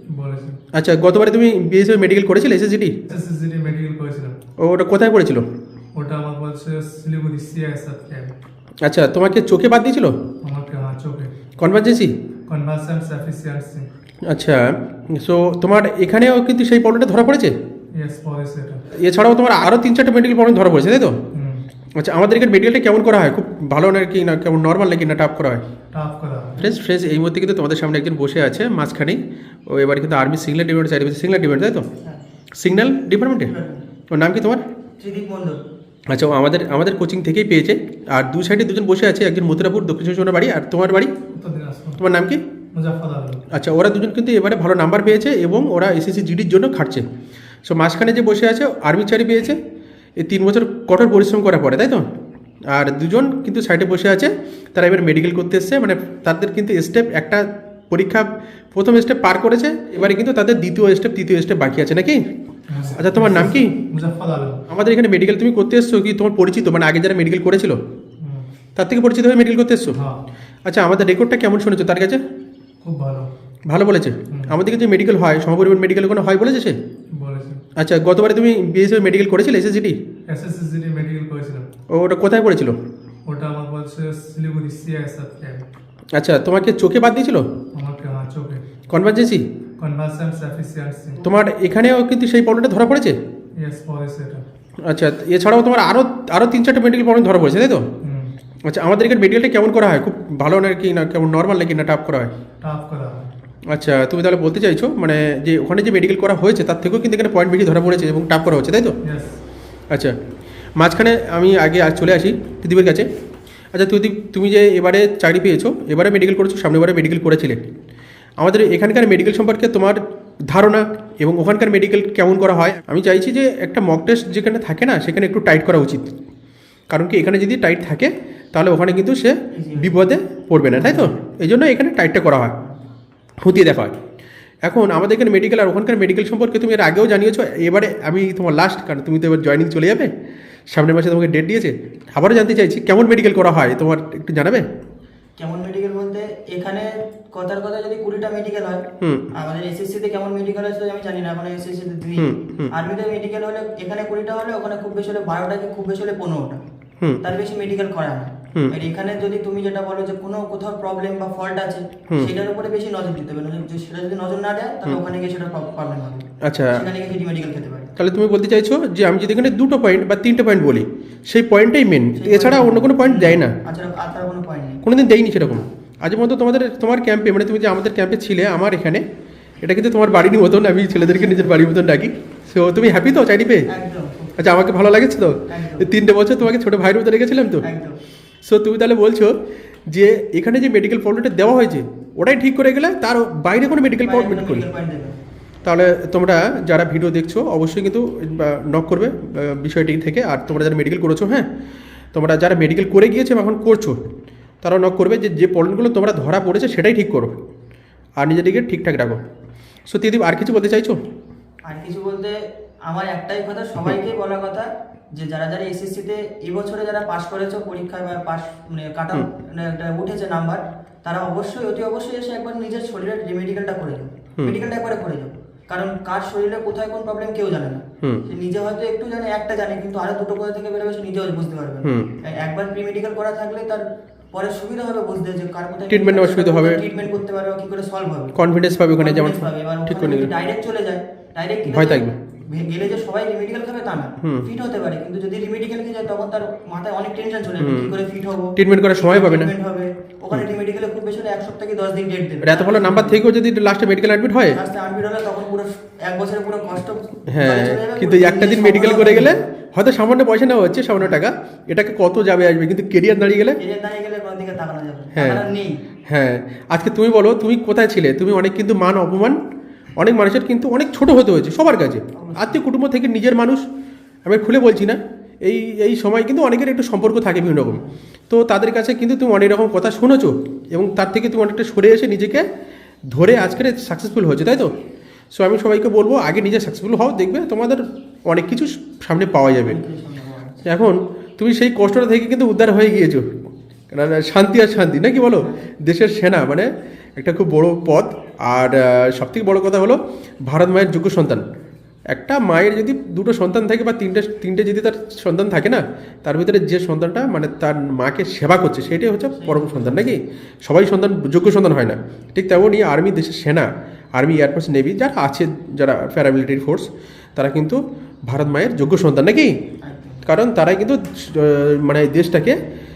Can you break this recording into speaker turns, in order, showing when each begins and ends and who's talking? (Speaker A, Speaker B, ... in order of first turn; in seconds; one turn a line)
Speaker A: 0.1-0.6
Speaker B: 0.7-2.9
Speaker A: 3.1-4.4
Speaker B: 4.6-5.5
Speaker A: 6.0-8.3
Speaker B: 8.8-10.2
Speaker A: 10.4-11.3
Speaker B: 11.6-12.1
Speaker A: 12.5-13.9
Speaker B: 14.2-17.5
Speaker A: 17.9-18.9
Speaker B: 18.9-21.2
Speaker A: 21.3-21.6
Speaker B: 22.0-25.6
Speaker A: 25.9-26.7
Speaker B: 26.6-31.9
Speaker B: 32.6-33.5
Speaker C: 33.5-33.9
Speaker B: 34.1-34.6
Speaker C: 35.0-35.6
Speaker B: 36.1-41.1
Speaker A: 41.3-42.0
Speaker B: 42.0-42.4
Speaker A: 42.7-43.4
Speaker B: 43.5-47.0
Speaker B: 47.7-49.6
Speaker B: 50.2-52.1
Speaker B: 52.7-62.2
Speaker A: 62.7-64.6
Speaker B: 63.0-63.7
Speaker B: 64.7-67.8
Speaker A: 68.2-68.5
Speaker B: 68.8-70.0
Speaker A: 69.9-70.2
Speaker B: 70.7-72.2
Speaker A: 72.8-73.3
Speaker B: 73.7-76.8
Speaker A: 74.3-74.6
Speaker A: 77.2-77.6
Speaker B: 77.8-80.0
Speaker A: 80.3-81.7
Speaker B: 81.9-82.8
Speaker A: 83.3-85.7
Speaker B: 86.1-87.5
Speaker A: 87.7-88.7
Speaker B: 88.9-89.5
Speaker A: 89.8-91.3
Speaker B: 91.2-93.2
Speaker A: 93.6-94.4
Speaker B: 94.8-97.9
Speaker A: 98.0-98.3
Speaker B: 98.7-102.3
Speaker A: 102.6-103.3
Speaker B: 103.7-109.0
Speaker A: 109.0-109.4
Speaker B: 110.8-113.1
Speaker B: 113.7-117.6
Speaker B: 118.4-126.1
Speaker B: 126.9-132.5
Speaker C: 129.5-130.0
Speaker C: 130.7-131.1
Speaker B: 133.4-133.9
Speaker B: 134.6-140.1
Speaker B: 140.7-144.7
Speaker C: 145.4-148.8
Speaker C: 149.3-156.6
Speaker B: 152.2-152.7
Speaker C: 157.2-167.9
Speaker B: 166.4-166.8
Speaker B: 168.0-173.5
Speaker C: 172.2-174.8
Speaker B: 174.8-179.0
Speaker B: 179.6-183.7
Speaker C: 183.7-184.4
Speaker B: 184.4-187.6
Speaker C: 185.5-185.9
Speaker C: 187.6-188.0
Speaker B: 188.4-189.3
Speaker B: 189.9-194.7
Speaker C: 194.0-195.2
Speaker B: 195.6-201.5
Speaker B: 202.1-204.0
Speaker B: 204.6-207.3
Speaker B: 208.2-209.2
Speaker B: 209.9-211.0
Speaker C: 211.7-238.4
Speaker B: 235.9-236.8
Speaker B: 238.4-240.3
Speaker C: 239.0-253.2
Speaker B: 241.7-242.2
Speaker B: 247.6-247.9
Speaker B: 248.6-249.5
Speaker B: 252.4-254.6
Speaker C: 254.5-259.4
Speaker B: 257.3-263.6
Speaker C: 263.6-265.8
Speaker B: 265.1-265.4
Speaker B: 266.1-269.4
Speaker B: 270.0-273.6
Speaker C: 272.1-272.6
Speaker B: 274.2-282.4
Speaker B: 283.1-284.7
Speaker B: 285.3-289.8
Speaker C: 289.7-290.6
Speaker B: 290.6-293.3
Speaker B: 293.9-301.4
Speaker B: 302.1-319.5
Speaker C: 309.3-310.2
Speaker C: 319.8-320.2
Speaker B: 320.2-322.6